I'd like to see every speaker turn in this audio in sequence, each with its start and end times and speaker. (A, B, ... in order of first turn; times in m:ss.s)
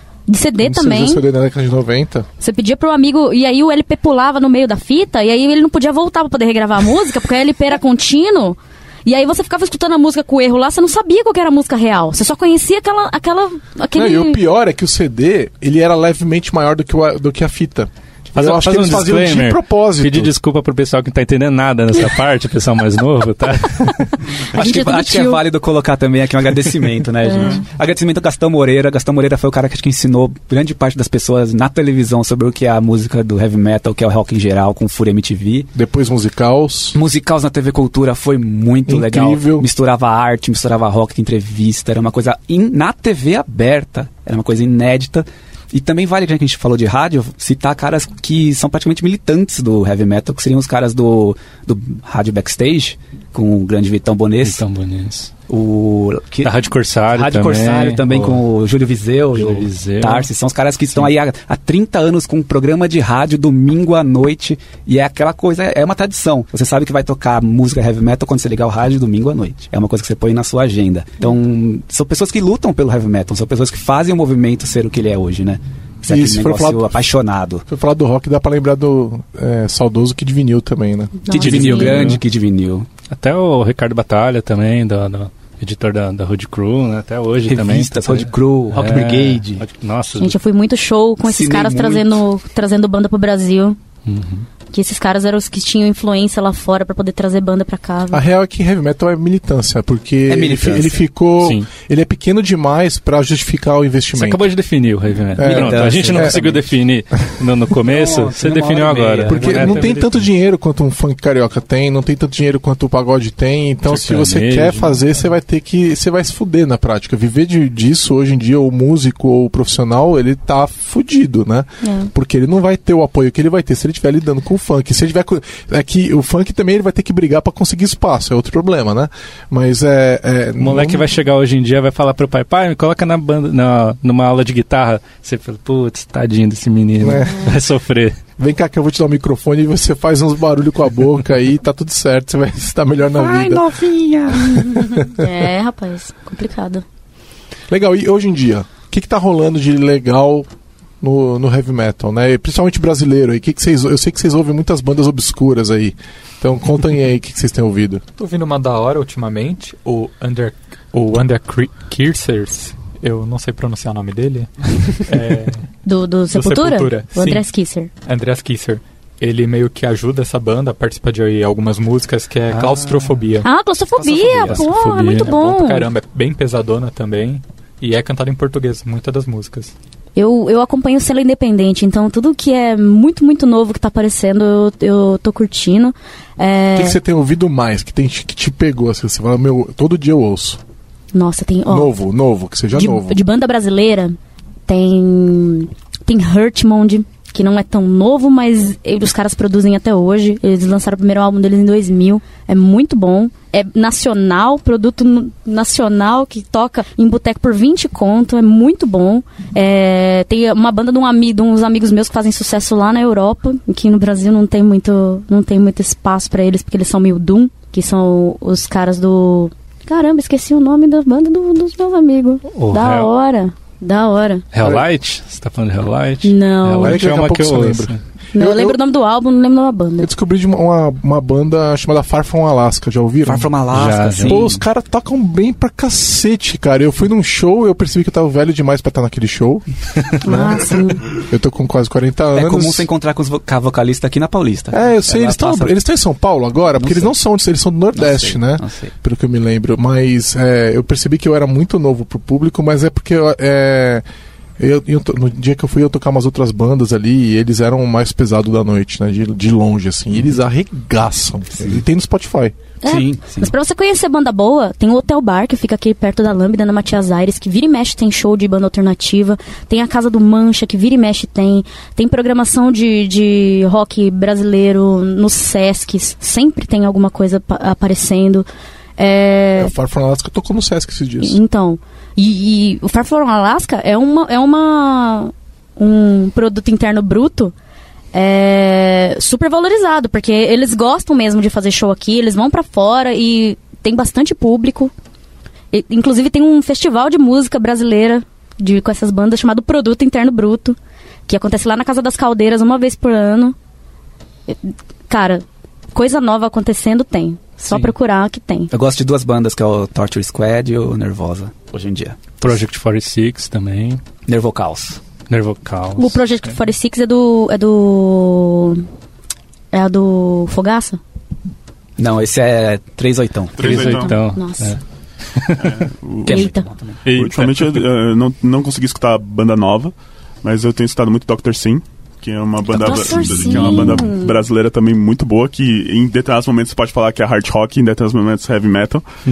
0:00.3-0:01.2 A
0:00.6-0:02.3 B
0:02.4-0:14.4 A
0:13.9-0:20.3 B
0:18.3-0:24.0 C
0:24.5-0:25.4 A
0:24.5-0:35.7 D
0:27.2-0:27.6 A
0:35.7-0:37.0 B
0:36.9-0:54.6 D
0:38.9-0:39.6 B
0:54.4-0:55.3 C
0:55.5-0:56.5 D
0:56.4-0:58.4 C
0:57.1-1:17.6 D
0:59.3-1:00.3 C
1:16.1-1:17.1 B
1:17.7-1:21.2 B
1:21.2-1:22.1 A
1:21.3-1:22.9 D
1:21.4-1:22.2 C
1:23.1-1:30.4 C
1:27.4-1:29.6 D
1:30.2-1:33.8 A
1:31.2-1:32.2 D
1:34.0-1:34.5 C
1:34.7-1:38.2 A
1:38.1-1:44.5 B
1:40.3-1:41.0 D
1:41.4-1:41.7 C
1:44.1-1:50.2 C
1:45.4-1:46.6 B
1:45.4-1:46.6 D
1:47.9-1:49.9 D
1:49.3-2:11.1 B
1:53.8-1:55.0 C
2:01.8-2:02.1 A
2:10.6-2:18.2 C
2:17.0-2:17.5 B
2:18.4-2:23.6 B
2:23.1-2:24.7 D
2:24.3-2:25.2 B
2:24.4-2:26.8 A
2:27.7-2:30.5 B
2:31.0-2:38.0 B
2:38.2-2:45.7 E
2:45.8-2:47.9 A
2:46.3-2:47.4 E
2:48.0-2:53.5 E
2:52.5-2:53.1 C
2:53.4-2:55.9 A
2:54.0-2:54.7 D
2:54.6-2:55.3 C
2:55.2-2:59.7 E
3:00.2-3:07.0 A
3:06.7-3:10.6 B
3:11.1-3:11.9 A
3:11.7-3:13.2 B
3:12.7-3:14.2 A
3:14.7-3:44.4 A
3:42.5-3:43.1 C
3:44.5-3:48.0 C
3:44.6-3:44.9 B
3:46.2-3:47.1 A
3:46.8-3:48.8 B
3:48.3-3:50.1 A
3:50.0-3:53.5 B
3:53.2-3:54.6 D
3:53.7-3:54.4 C
3:54.2-4:02.9 B
4:00.2-4:01.1 A
4:02.3-4:05.8 D
4:04.7-4:14.0 B
4:06.8-4:07.1 D
4:07.9-4:08.9 D
4:14.6-4:22.6 B
4:21.6-4:21.8 D
4:22.8-4:38.4 A
4:22.8-4:23.5 D
4:39.0-4:39.7 A
4:39.6-4:41.4 B
4:41.2-4:47.5 A
4:48.1-4:54.9 A
4:55.7-5:00.8 A
5:01.3-5:03.5 A
5:04.5-5:08.7 A
5:08.7-5:12.2 D
5:12.4-5:14.0 C
5:14.3-5:15.0 D
5:15.3-5:16.3 C
5:16.0-5:18.8 A
5:19.7-5:21.0 A
5:22.0-5:23.6 D
5:23.6-5:24.1 F
5:23.6-5:24.8 A
5:23.6-5:24.8 C
5:25.3-5:25.8 C
5:25.6-5:26.4 F
5:26.2-5:27.0 D
5:26.3-5:26.6 A
5:27.0-5:27.8 C
5:27.1-5:39.0 F
5:32.7-5:34.4 A
5:32.8-5:34.0 D